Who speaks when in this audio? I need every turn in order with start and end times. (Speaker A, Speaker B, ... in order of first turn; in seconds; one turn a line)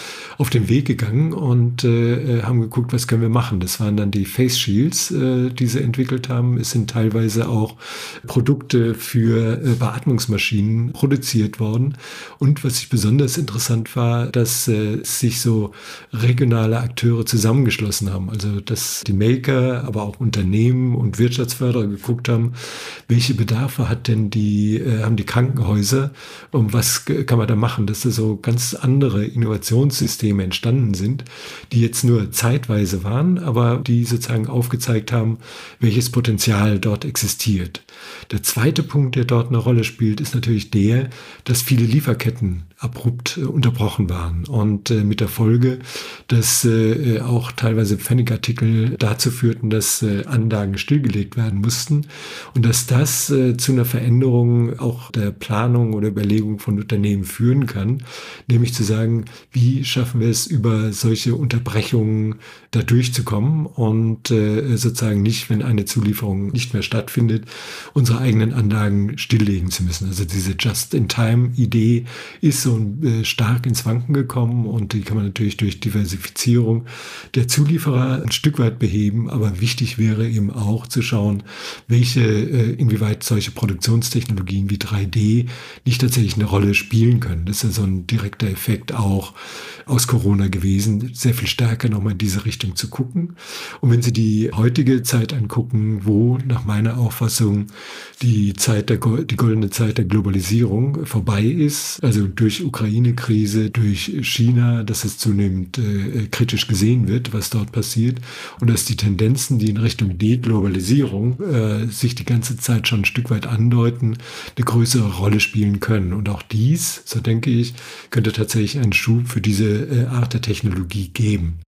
Speaker A: 0.4-89.3
Speaker A: 89.9-121.6